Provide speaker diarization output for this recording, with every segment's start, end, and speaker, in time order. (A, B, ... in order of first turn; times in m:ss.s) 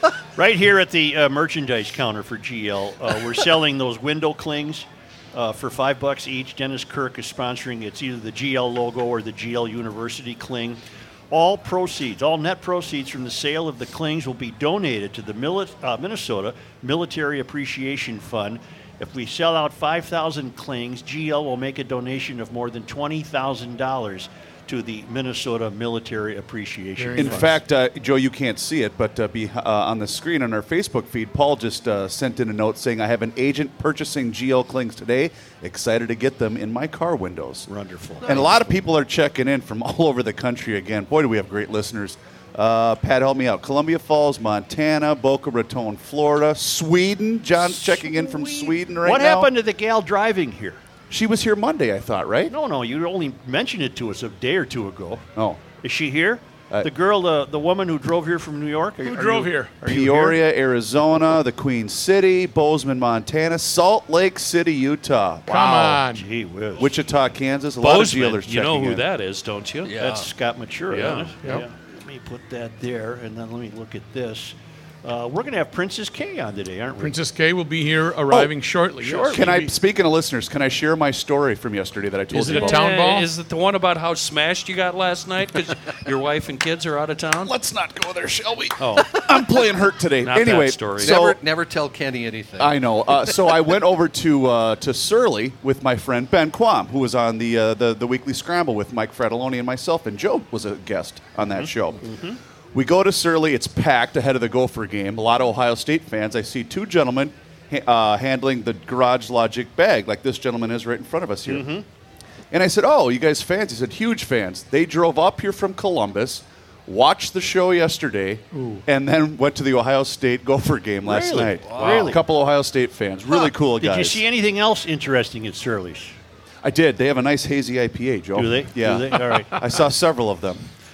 0:00.4-0:10.8 A
0:11.3-0:27.6 A
0:27.0-0:27.5 B
0:27.2-0:37.7 C
0:37.7-0:38.6 A
0:38.2-0:38.7 D
0:38.2-0:49.5 C
0:49.0-0:50.8 A
0:51.1-0:52.5 C
0:52.5-0:55.2 A
0:55.4-0:55.7 C
0:55.8-1:00.4 A
0:59.0-0:59.8 B
0:59.8-1:06.0 C
1:05.5-1:06.3 B
1:06.0-1:06.9 A
1:06.8-1:09.0 C
1:07.8-1:10.0 E
1:09.8-1:10.3 D
1:10.0-1:17.2 A
1:10.9-1:11.4 E
1:17.0-1:19.7 B
1:19.0-1:19.4 A
1:19.3-1:22.8 C
1:22.3-1:23.3 B
1:22.5-1:27.5 E
1:27.4-1:31.4 C
1:28.8-1:29.1 E
1:30.2-1:31.2 E
1:31.0-1:33.5 D
1:32.6-1:42.0 C
1:41.6-1:42.4 A
1:42.7-1:51.7 C
1:51.5-1:51.8 A
1:52.5-2:04.2 C
1:58.6-1:58.8 B
2:01.0-2:02.2 A
2:01.6-2:02.2 D
2:01.8-2:02.1 E
2:03.8-2:06.2 A
2:06.6-2:10.7 C
2:08.4-2:09.6 A